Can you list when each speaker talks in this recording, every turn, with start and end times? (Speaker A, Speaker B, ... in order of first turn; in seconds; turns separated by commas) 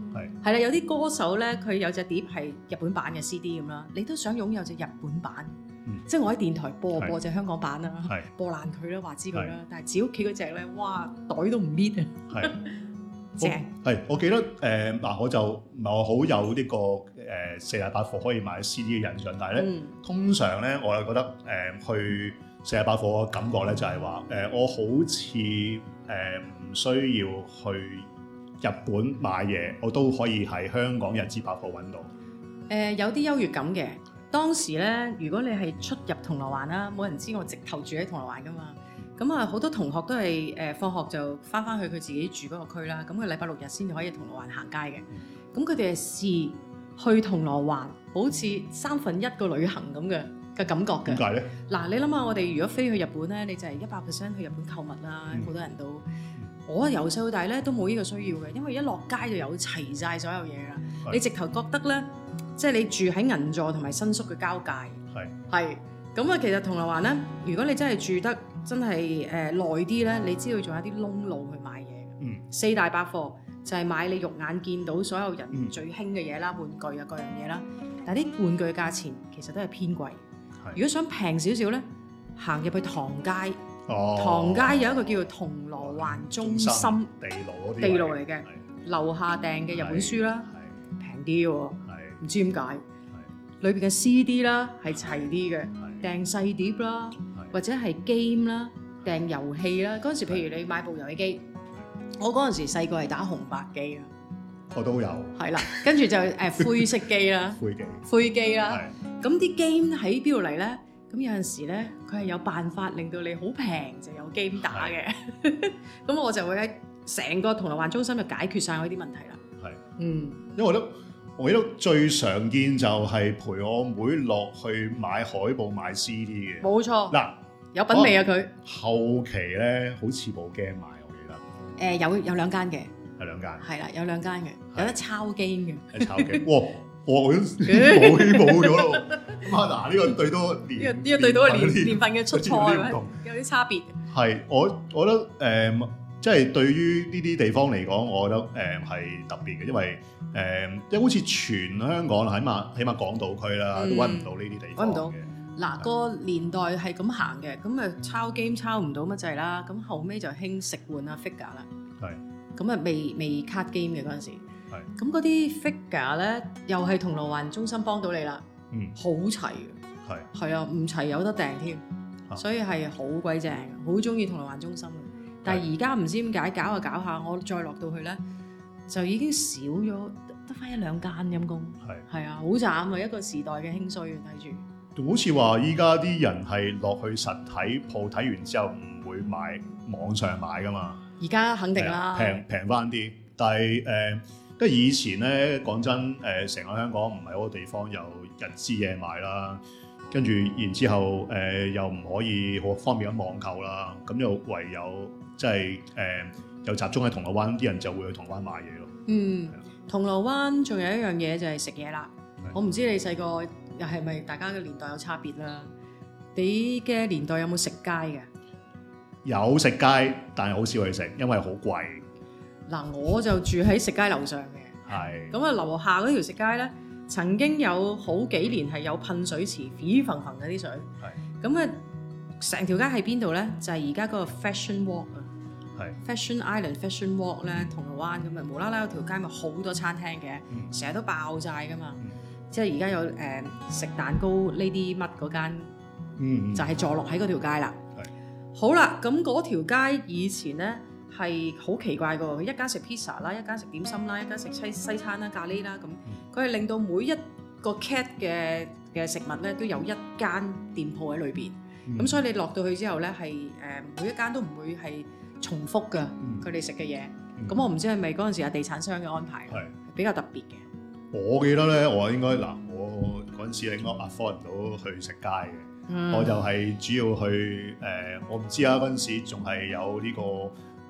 Speaker A: 0.4-5.6, Speaker A: 6.1-12.8, Speaker A: 13.4-13.7, Speaker B: 13.4-28.1, Speaker A: 19.6-19.9, Speaker B: 28.6-32.1, Speaker A: 32.7-56.1, Speaker B: 51.1-51.5, Speaker A: 56.7-80.2, Speaker A: 80.7-81.8, Speaker A: 82.4-83.6, Speaker B: 83.9-84.8, Speaker A: 84.2-87.1, Speaker B: 85.8-88.5, Speaker A: 87.8-92.8, Speaker B: 89.7-90.6, Speaker B: 91.9-92.2, Speaker A: 93.6-101.5, Speaker A: 102.2-104.1, Speaker B: 104.7-105.8, Speaker A: 105.4-119.4, Speaker B: 107.6-108.1, Speaker B: 114.7-115.0, Speaker A: 120.0-120.5, Speaker B: 120.5-127.4, Speaker A: 126.6-127.2, Speaker A: 127.7-128.5, Speaker B: 127.9-131.4, Speaker A: 131.8-132.9, Speaker B: 133.2-133.7, Speaker A: 133.6-136.4, Speaker B: 135.9-143.1, Speaker A: 137.6-139.4, Speaker A: 140.8-144.0, Speaker B: 144.1-155.3, Speaker A: 153.7-161.7, Speaker A: 162.6-164.4, Speaker A: 165.0-168.4, Speaker B: 168.7-169.0, Speaker A: 169.0-169.8, Speaker A: 170.3-171.8, Speaker A: 172.3-178.2, Speaker A: 178.9-184.6, Speaker B: 185.0-191.0, Speaker A: 191.2-192.4, Speaker B: 191.8-208.9, Speaker A: 209.1-215.7, Speaker A: 216.3-218.3, Speaker B: 219.2-222.0, Speaker A: 222.7-230.9, Speaker B: 224.9-225.3, Speaker A: 231.4-231.8, Speaker A: 232.4-235.3, Speaker A: 236.0-245.7, Speaker B: 246.2-246.8, Speaker A: 246.5-247.8, Speaker A: 248.6-270.6, Speaker B: 261.9-262.2, Speaker B: 271.1-280.5, Speaker A: 275.9-276.4